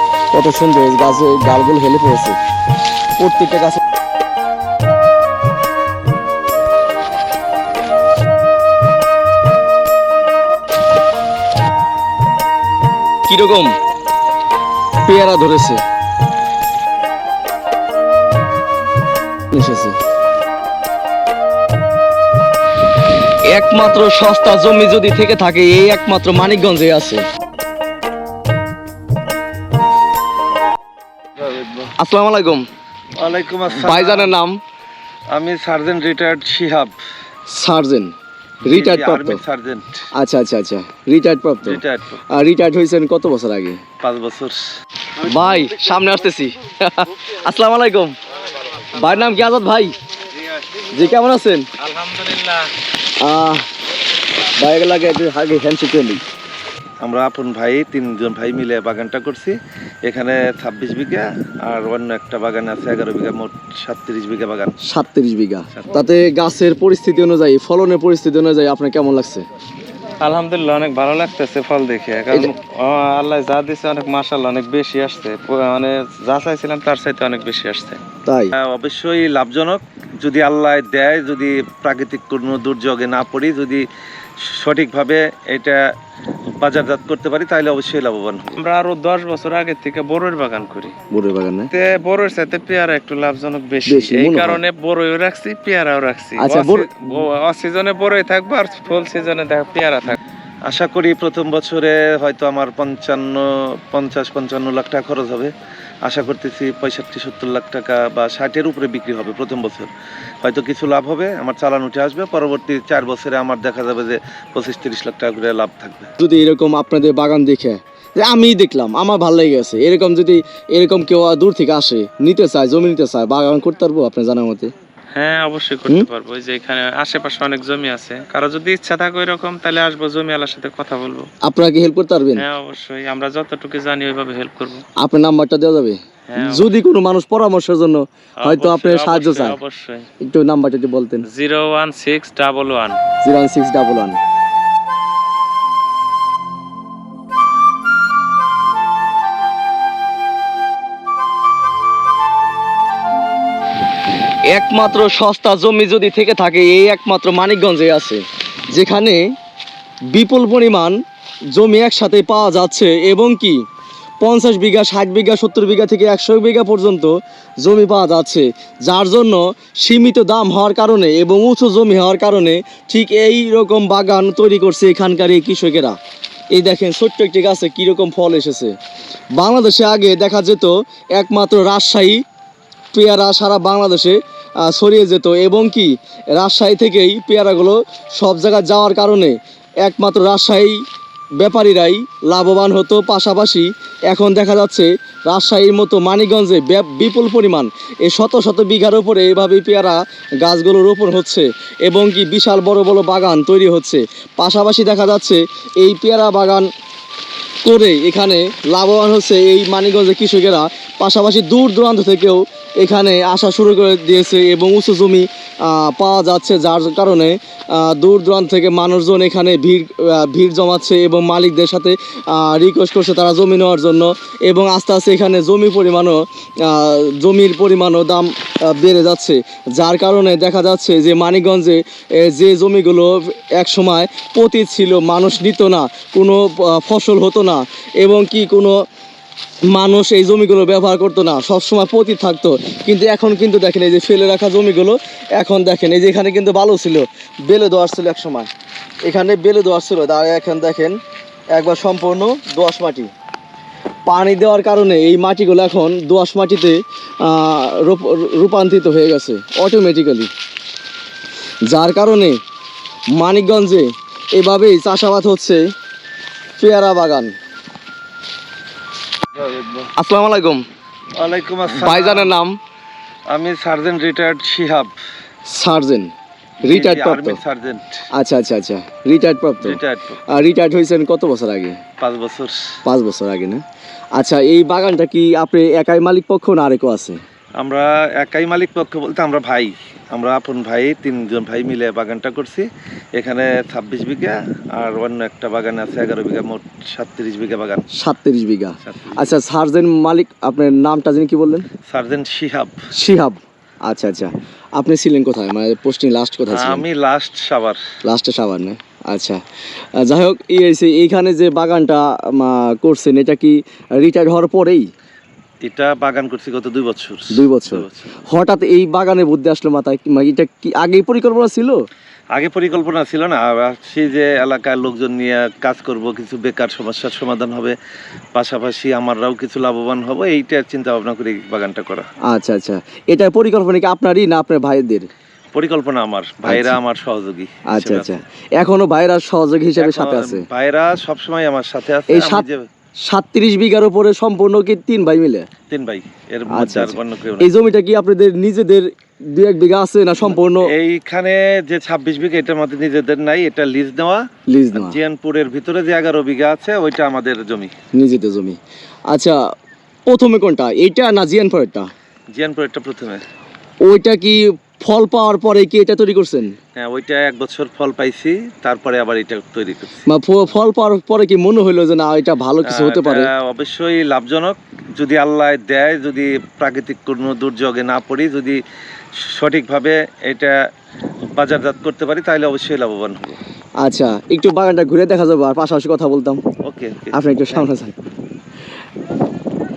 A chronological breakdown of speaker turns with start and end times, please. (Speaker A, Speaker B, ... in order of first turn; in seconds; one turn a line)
Speaker A: 0.3-2.4
Speaker A: 3.2-3.8
Speaker A: 13.3-13.8
Speaker A: 15.1-15.8
Speaker A: 19.5-20.0
Speaker A: 23.5-27.2
Speaker B: 31.4-31.9
Speaker A: 32.0-32.7
Speaker B: 33.2-34.3
Speaker A: 33.8-34.6
Speaker B: 35.3-37.0
Speaker A: 37.5-38.1
Speaker A: 38.7-39.4
Speaker B: 38.7-40.1
Speaker A: 40.1-41.8
Speaker B: 41.6-42.2
Speaker A: 42.3-43.8
Speaker B: 44.0-44.6
Speaker A: 45.2-48.1
Speaker A: 49.0-49.9
Speaker A: 50.9-51.7
Speaker C: 51.8-52.7
Speaker A: 53.2-53.7
Speaker A: 54.6-56.2
Speaker B: 57.0-64.8
Speaker A: 64.8-69.5
Speaker C: 70.2-78.0
Speaker A: 78.3-78.5
Speaker B: 78.5-83.9
Speaker B: 84.4-85.8
Speaker B: 86.6-88.6
Speaker C: 88.6-91.0
Speaker A: 91.1-91.7
Speaker C: 91.7-100.2
Speaker A: 93.9-94.6
Speaker A: 96.4-97.0
Speaker B: 100.7-105.5
Speaker B: 106.0-109.9
Speaker B: 110.4-116.1
Speaker A: 116.2-124.7
Speaker C: 125.1-131.3
Speaker A: 131.4-132.4
Speaker C: 132.4-134.8
Speaker A: 135.0-139.6
Speaker C: 136.3-136.7
Speaker C: 138.4-140.1
Speaker A: 140.2-141.2
Speaker C: 141.3-143.0
Speaker A: 143.2-144.2
Speaker A: 154.5-159.3
Speaker A: 160.1-161.0
Speaker A: 161.5-163.6
Speaker A: 164.2-176.0
Speaker A: 176.5-178.8
Speaker A: 179.3-182.2
Speaker A: 182.9-190.8
Speaker A: 191.4-206.7
Speaker A: 207.7-238.8
Speaker A: 239.7-248.5
Speaker A: 249.0-251.0
Speaker A: 251.5-253.1
Speaker A: 254.1-260.3
Speaker A: 261.7-262.4
Speaker A: 263.2-265.7
Speaker A: 266.6-267.4
Speaker B: 269.4-269.9
Speaker A: 270.0-270.6
Speaker B: 271.2-272.3
Speaker A: 271.7-272.6
Speaker B: 273.3-274.9
Speaker A: 275.5-276.1
Speaker A: 276.6-277.4
Speaker B: 276.7-278.0
Speaker A: 278.1-281.8
Speaker B: 279.6-280.2
Speaker B: 282.0-282.6
Speaker A: 282.9-283.6
Speaker A: 284.2-287.2
Speaker B: 287.6-297.9
Speaker A: 297.9-301.7
Speaker B: 298.9-299.3
Speaker B: 301.9-302.8
Speaker A: 302.9-306.9
Speaker B: 306.5-307.8
Speaker A: 308.0-309.4
Speaker A: 310.0-314.9
Speaker B: 315.6-318.2
Speaker A: 317.3-321.8
Speaker B: 322.3-327.8
Speaker B: 328.3-332.1
Speaker A: 332.3-335.1
Speaker B: 335.5-338.2
Speaker A: 336.4-336.8
Speaker A: 337.7-340.5
Speaker B: 339.8-342.7
Speaker A: 342.1-342.5
Speaker A: 343.1-345.5
Speaker B: 345.7-347.5
Speaker A: 346.5-350.7
Speaker B: 350.2-357.7
Speaker A: 354.5-355.0
Speaker A: 357.9-358.6
Speaker A: 359.1-359.4
Speaker A: 360.1-361.9
Speaker B: 362.3-363.2
Speaker A: 363.8-366.5
Speaker B: 366.8-370.1
Speaker A: 370.1-373.3
Speaker B: 372.6-378.6
Speaker B: 379.2-380.6
Speaker B: 381.3-383.4
Speaker A: 383.8-386.4
Speaker B: 386.6-387.7
Speaker A: 387.1-388.0